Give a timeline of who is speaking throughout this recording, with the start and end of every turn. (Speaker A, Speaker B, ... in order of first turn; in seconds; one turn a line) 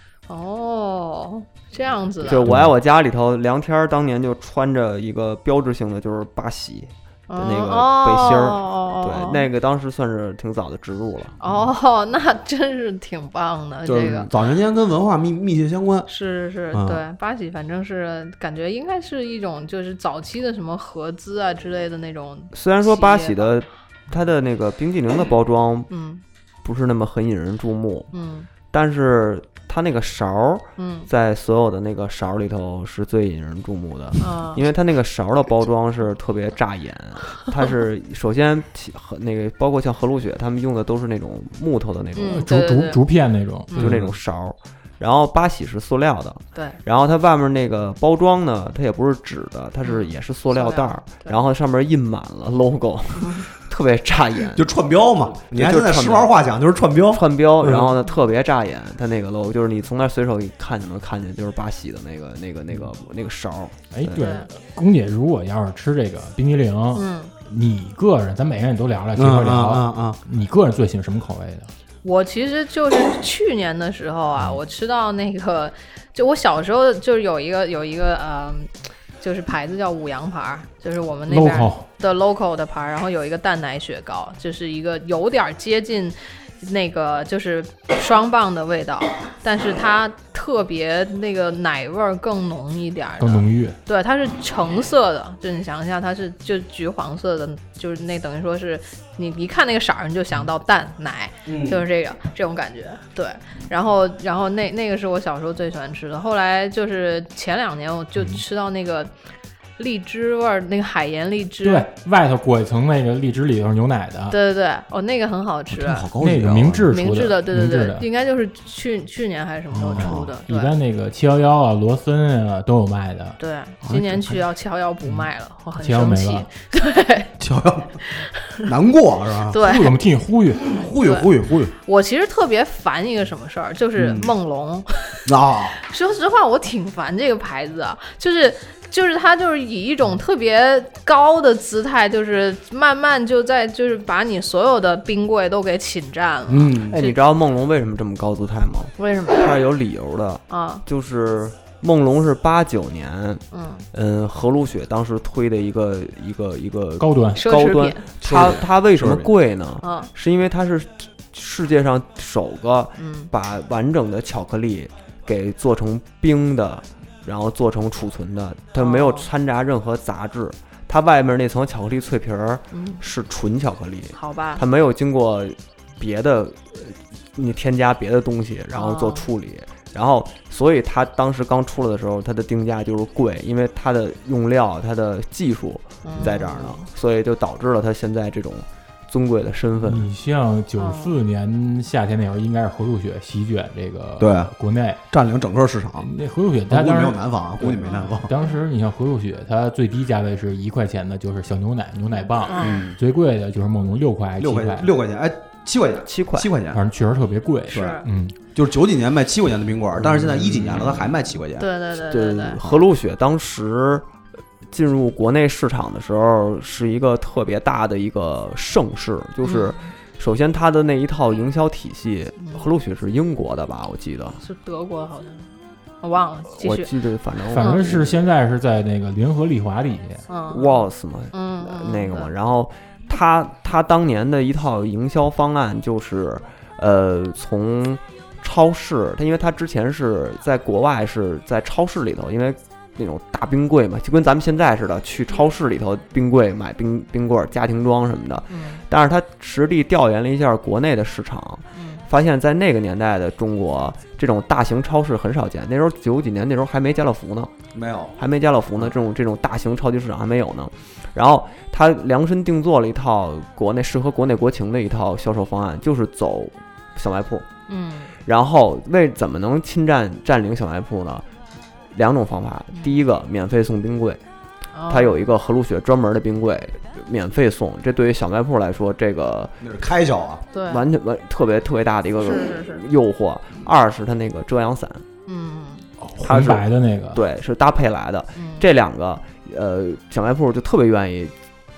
Speaker A: 0.3-2.5
Speaker B: 2.2-11.3
Speaker A: 7.3-9.4
Speaker A: 11.4-14.3
Speaker C: 13.8-16.1
Speaker A: 16.1-23.5
Speaker C: 16.7-17.0
Speaker B: 22.5-25.9
Speaker A: 25.9-26.2
Speaker B: 26.6-28.1
Speaker A: 28.1-28.5
Speaker B: 28.7-42.4
Speaker A: 30.8-31.1
Speaker A: 34.2-34.6
Speaker A: 42.2-43.0
Speaker D: 42.3-43.9
Speaker B: 43.8-54.7
Speaker C: 43.8-44.1
Speaker A: 49.8-51.4
Speaker A: 53.2-53.5
Speaker C: 54.5-57.9
Speaker B: 55.5-56.3
Speaker B: 57.1-64.2
Speaker D: 63.9-71.7
Speaker A: 64.2-64.5
Speaker A: 67.0-67.3
Speaker C: 69.2-70.2
Speaker A: 72.0-109.1
Speaker D: 81.3-81.9
Speaker D: 93.2-93.8
Speaker C: 101.5-101.8
Speaker A: 109.8-111.9
Speaker D: 111.6-114.4
Speaker A: 114.3-116.1
Speaker C: 115.7-116.9
Speaker D: 116.2-118.1
Speaker A: 116.9-120.7
Speaker C: 119.7-120.3
Speaker D: 119.9-123.4
Speaker A: 123.4-127.4
Speaker C: 123.8-124.4
Speaker D: 125.8-126.5
Speaker C: 127.4-128.0
Speaker A: 128.1-128.7
Speaker C: 128.7-129.6
Speaker A: 129.5-129.9
Speaker D: 129.6-130.8
Speaker C: 130.7-131.7
Speaker A: 131.0-131.3
Speaker A: 131.8-135.2
Speaker C: 134.0-134.3
Speaker C: 135.2-135.8
Speaker A: 135.8-147.2
Speaker C: 146.5-147.0
Speaker B: 146.9-190.1
Speaker A: 149.0-149.5
Speaker A: 150.5-150.8
Speaker A: 153.5-153.8
Speaker D: 157.0-157.5
Speaker A: 157.3-158.1
Speaker C: 158.2-159.3
Speaker A: 159.8-160.1
Speaker A: 163.0-163.3
Speaker A: 168.8-169.3
Speaker A: 172.7-173.0
Speaker A: 174.2-174.6
Speaker A: 178.7-179.3
Speaker A: 186.0-186.8
Speaker D: 189.8-195.0
Speaker A: 190.8-191.2
Speaker C: 194.2-194.5
Speaker C: 195.1-196.1
Speaker D: 196.0-204.9
Speaker C: 196.7-198.3
Speaker A: 197.8-198.6
Speaker A: 202.5-202.9
Speaker C: 202.6-203.0
Speaker C: 204.4-206.8
Speaker B: 206.1-206.5
Speaker D: 206.7-208.4
Speaker C: 207.7-208.0
Speaker A: 207.7-208.0
Speaker C: 208.6-211.7
Speaker B: 210.0-211.1
Speaker A: 211.6-212.6
Speaker B: 212.1-214.1
Speaker C: 212.6-212.8
Speaker B: 214.7-224.4
Speaker A: 219.4-219.8
Speaker A: 222.4-222.7
Speaker A: 224.4-225.5
Speaker A: 226.0-226.9
Speaker B: 226.6-228.2
Speaker D: 227.5-230.2
Speaker A: 227.6-227.9
Speaker A: 230.3-232.3
Speaker B: 230.5-257.5
Speaker A: 248.5-248.8
Speaker A: 251.8-252.0
Speaker C: 257.8-258.1
Speaker B: 258.2-267.4
Speaker A: 267.7-268.1
Speaker B: 268.2-271.2
Speaker B: 271.9-274.2
Speaker A: 274.8-275.2
Speaker B: 274.9-279.5
Speaker C: 279.6-280.4
Speaker A: 280.5-280.9
Speaker B: 280.7-285.0
Speaker A: 282.2-282.8
Speaker A: 285.3-285.9
Speaker D: 286.0-287.2
Speaker B: 286.2-291.3
Speaker A: 288.4-288.6